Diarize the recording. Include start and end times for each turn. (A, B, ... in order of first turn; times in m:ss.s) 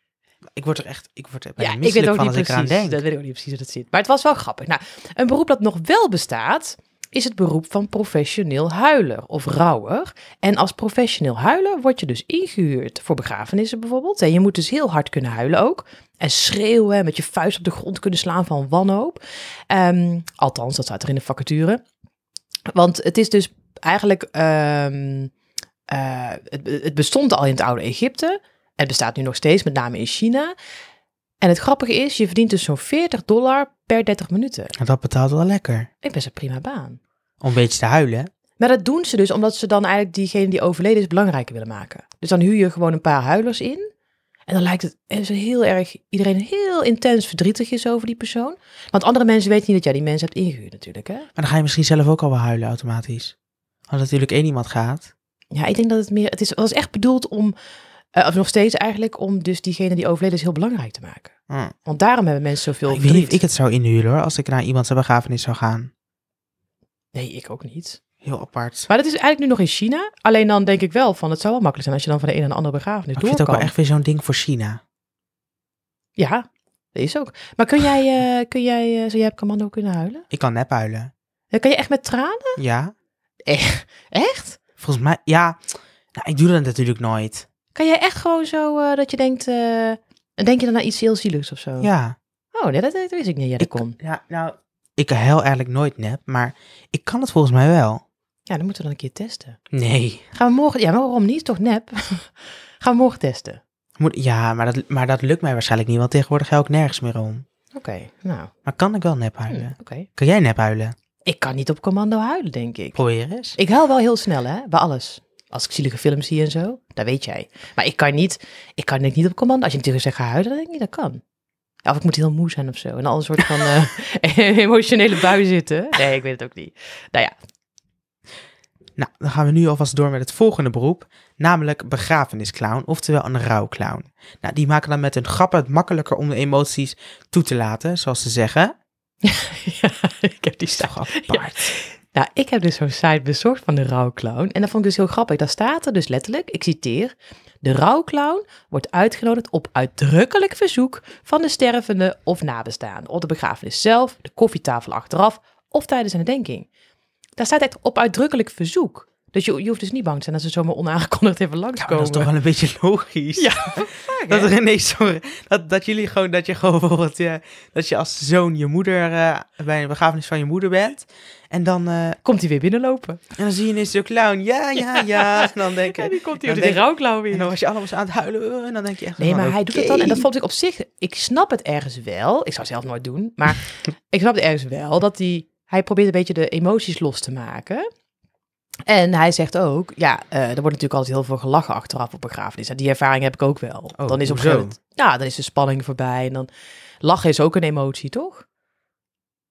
0:00.5-0:03.0 A
0:01.6-0:21.8 B
0:22.7-0:25.3 B
0:25.9-0:30.5 B
0:31.4-0:34.7 B
0:34.8-0:35.9 A
0:36.0-0:37.0 B
0:37.4-0:38.3 A
0:38.6-0:43.9 B
0:44.5-0:51.3 B
0:51.4-0:53.3 A
0:53.9-0:55.1 A
0:55.5-0:57.5 B
0:58.1-1:01.3 B
1:01.8-1:03.4 B
1:02.9-1:05.9 A
1:07.1-1:08.0 B
1:08.2-1:08.9 A
1:08.9-1:13.7 B
1:13.2-1:14.8 A
1:16.2-1:20.2 B
1:20.3-1:21.1 A
1:21.5-1:22.6 B
1:22.6-1:22.9 A
1:23.4-1:24.6 B
1:24.8-1:27.5 A
1:27.7-1:31.9 B
1:31.8-1:32.2 A
1:32.5-1:34.0 B
1:33.6-1:38.0 A
1:38.5-1:39.6 B
1:39.7-1:40.2 A
1:40.3-1:43.6 B
1:44.0-1:47.4 A
1:47.7-1:48.5 B
1:48.6-1:50.9 A
1:49.5-1:50.1 B
1:51.2-1:53.0 B
1:52.9-1:53.6 A
1:53.6-2:01.2 B
2:01.8-2:07.3 B
2:09.0-2:18.7 A
2:19.2-2:36.7 B
2:20.8-2:21.7 A
2:37.4-2:42.3 B
2:41.8-2:52.2 A
2:43.4-2:44.5 B
2:52.2-2:53.2 B
2:53.4-3:00.3 A
2:54.9-2:57.5 B
2:59.2-3:07.9 B
3:08.9-3:16.5 B
3:14.0-3:14.8 A
3:17.0-3:18.4 B